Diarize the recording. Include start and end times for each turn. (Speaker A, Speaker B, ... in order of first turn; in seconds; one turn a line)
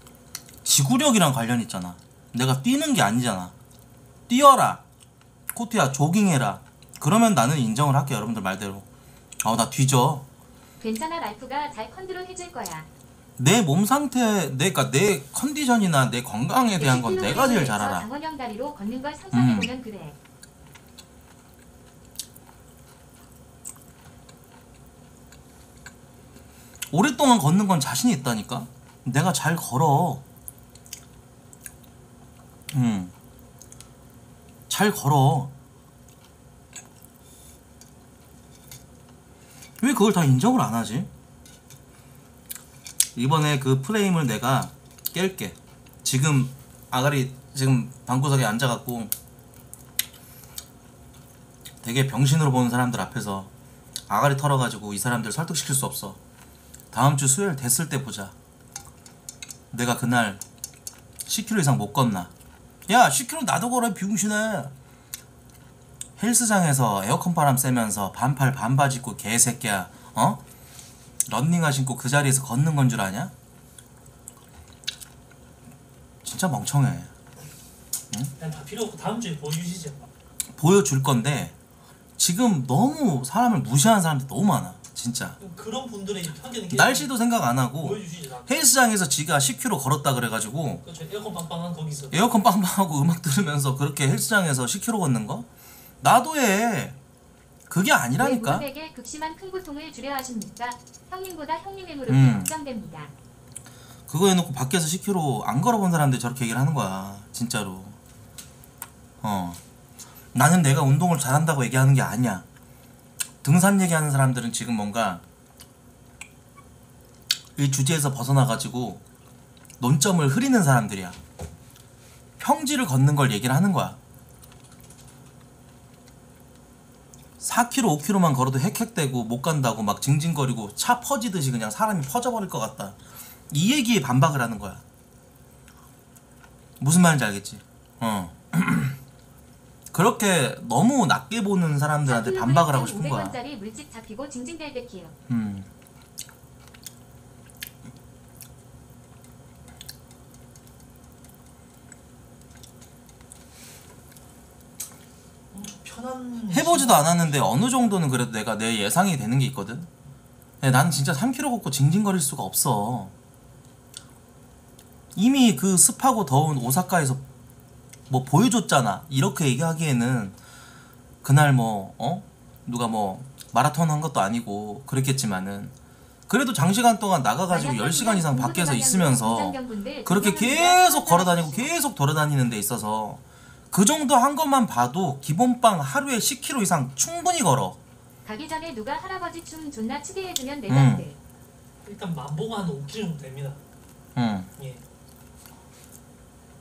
Speaker A: 0.6-3.5
Speaker A: 4.3-4.8
Speaker A: 5.5-8.9
Speaker A: 9.4-10.2
Speaker B: 10.8-12.9
Speaker A: 13.4-18.1
Speaker B: 16.8-20.2
Speaker A: 19.3-19.7
Speaker A: 26.9-30.2
Speaker A: 32.7-33.1
Speaker A: 34.7-35.5
Speaker A: 39.8-41.1
Speaker A: 43.2-49.1
Speaker A: 51.8-53.5
Speaker A: 54.1-56.2
Speaker A: 56.9-58.4
Speaker A: 59.7-60.4
Speaker A: 61.3-62.3
Speaker A: 62.9-64.7
Speaker A: 66.2-70.4
Speaker A: 71.3-73.3
Speaker A: 76.2-77.1
Speaker C: 78.4-80.1
Speaker A: 80.6-81.5
Speaker A: 82.2-85.4
Speaker C: 85.4-87.1
Speaker A: 86.7-90.8
Speaker C: 87.8-88.7
Speaker C: 90.8-92.2
Speaker A: 92.1-95.5
Speaker A: 96.0-97.0
Speaker A: 97.7-98.7
Speaker B: 98.2-103.1
Speaker A: 102.1-102.5
Speaker A: 104.1-108.0
Speaker A: 109.2-109.6
Speaker A: 110.3-112.5
Speaker A: 113.4-115.2
Speaker A: 117.6-119.0
Speaker A: 119.8-121.2
Speaker A: 122.4-124.0
Speaker A: 127.4-133.0
Speaker A: 133.5-134.8
Speaker A: 136.8-139.0
Speaker A: 139.9-143.4
Speaker B: 142.1-145.1
Speaker A: 145.3-145.7
Speaker C: 155.5-157.1
Speaker A: 156.5-159.9
Speaker A: 160.6-163.1
Speaker A: 165.2-167.2
Speaker A: 168.1-170.4
Speaker A: 171.2-175.7
Speaker A: 176.3-187.8
Speaker B: 177.5-181.7
Speaker B: 188.2-191.2
Speaker A: 190.7-191.1
Speaker C: 191.8-193.6
Speaker A: 194.2-194.5
Speaker C: 194.6-194.8